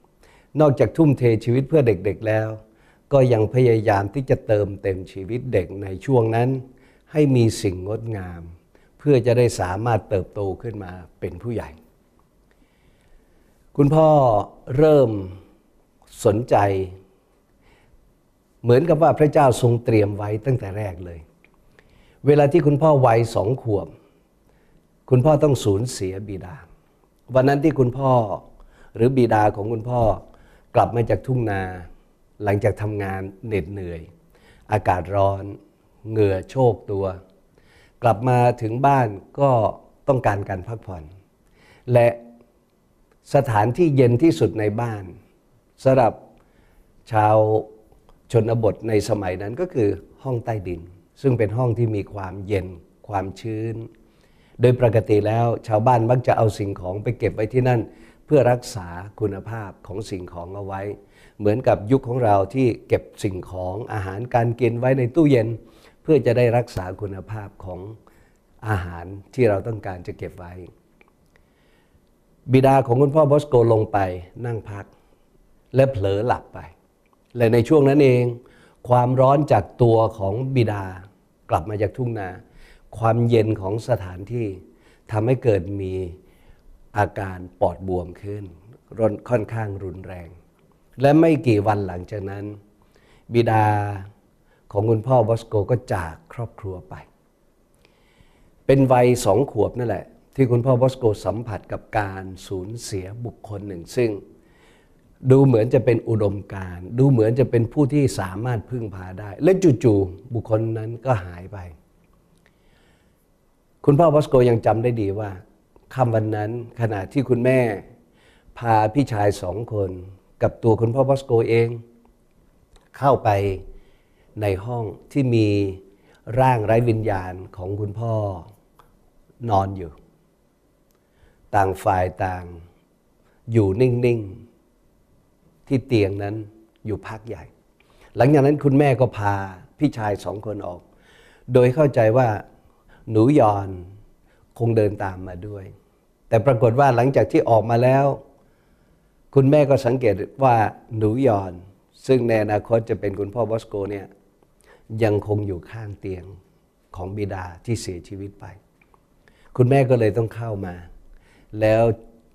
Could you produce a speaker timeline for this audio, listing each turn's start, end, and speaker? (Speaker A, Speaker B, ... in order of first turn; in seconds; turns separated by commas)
Speaker A: 0.5-2.6, Speaker A: 3.1-11.7, Speaker A: 13.7-15.4, Speaker A: 16.1-16.9, Speaker A: 18.6-21.2, Speaker A: 22.2-23.9, Speaker A: 25.1-26.6, Speaker A: 27.3-30.2, Speaker A: 30.7-31.9, Speaker A: 32.4-34.1, Speaker A: 34.7-37.1, Speaker A: 38.0-41.1, Speaker A: 41.9-42.2, Speaker A: 43.2-45.1, Speaker A: 45.8-46.2, Speaker A: 47.0-47.7, Speaker A: 48.3-53.9, Speaker A: 54.6-68.0, Speaker A: 68.6-70.7, Speaker A: 72.5-74.9, Speaker A: 75.7-76.7, Speaker A: 77.3-82.4, Speaker A: 82.9-86.1, Speaker A: 86.9-90.3, Speaker A: 91.0-92.5, Speaker A: 93.3-94.1, Speaker A: 94.7-97.1, Speaker A: 98.7-104.2, Speaker A: 105.2-111.7, Speaker A: 113.8-115.4, Speaker A: 115.9-117.8, Speaker A: 118.5-121.8, Speaker A: 122.9-123.6, Speaker A: 124.4-128.5, Speaker A: 129.4-129.9, Speaker A: 131.5-132.6, Speaker A: 133.5-134.4, Speaker A: 135.7-137.5, Speaker A: 138.2-140.8, Speaker A: 141.5-142.4, Speaker A: 143.1-143.8, Speaker A: 144.6-145.7, Speaker A: 146.3-148.2, Speaker A: 149.3-154.1, Speaker A: 154.9-156.3, Speaker A: 156.9-158.6, Speaker A: 159.5-160.9, Speaker A: 161.5-161.9